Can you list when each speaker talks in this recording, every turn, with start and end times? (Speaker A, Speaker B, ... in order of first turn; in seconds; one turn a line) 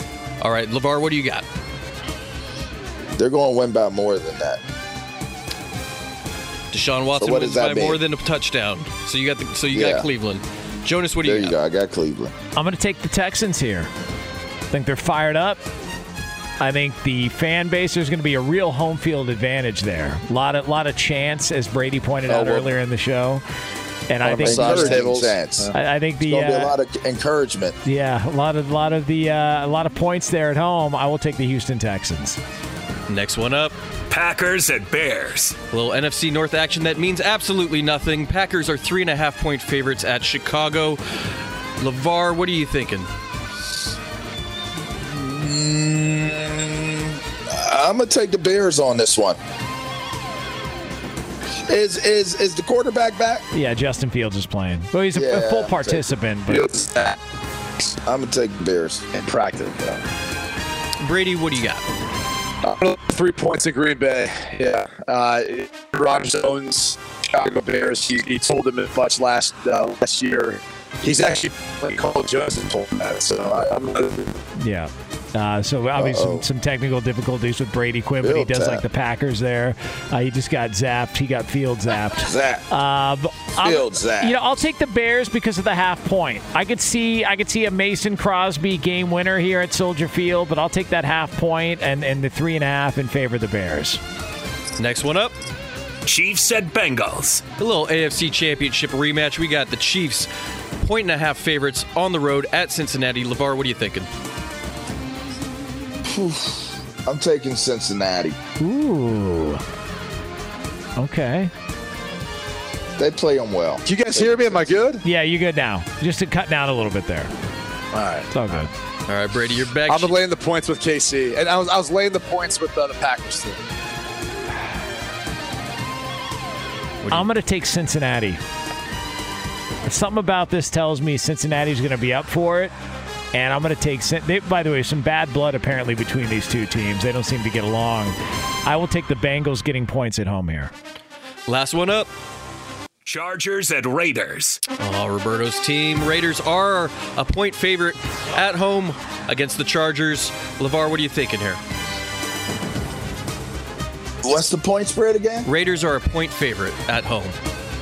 Speaker A: 0.4-1.4
Speaker B: 3.1-4.6
Speaker A: 6.7-11.5
Speaker B: 7.2-8.0
Speaker B: 9.7-10.1
Speaker B: 11.2-12.3
Speaker C: 12.5-13.9
Speaker C: 14.7-15.6
Speaker C: 16.6-23.4
Speaker D: 22.3-22.7
Speaker C: 24.1-25.2
Speaker D: 24.2-25.7
Speaker B: 24.4-25.7
Speaker C: 25.7-26.7
Speaker B: 26.2-27.8
Speaker C: 27.8-32.4
Speaker A: 33.1-33.7
Speaker E: 34.1-35.6
Speaker A: 35.7-41.0
Speaker A: 41.8-43.1
Speaker B: 45.0-49.4
Speaker B: 51.6-53.4
Speaker C: 53.5-56.7
Speaker B: 55.1-56.0
Speaker D: 56.5-57.2
Speaker B: 58.0-59.1
Speaker D: 59.1-60.0
Speaker A: 61.0-61.8
Speaker D: 62.6-74.3
Speaker C: 74.6-94.0
Speaker B: 76.0-76.5
Speaker B: 78.2-78.8
Speaker B: 82.2-82.6
Speaker B: 83.6-84.4
Speaker A: 94.8-95.3
Speaker E: 96.0-97.4
Speaker A: 97.6-104.1
Speaker B: 106.0-108.4
Speaker C: 108.6-109.6
Speaker C: 111.0-111.5
Speaker B: 113.0-114.8
Speaker D: 113.8-115.0
Speaker C: 115.0-117.3
Speaker D: 117.9-118.7
Speaker C: 118.3-118.7
Speaker A: 119.1-120.1
Speaker D: 119.9-123.6
Speaker C: 127.1-128.4
Speaker C: 129.8-132.7
Speaker C: 133.3-140.7
Speaker A: 141.5-142.1
Speaker E: 143.1-144.6
Speaker A: 144.8-151.6
Speaker B: 154.2-155.5
Speaker A: 155.4-157.3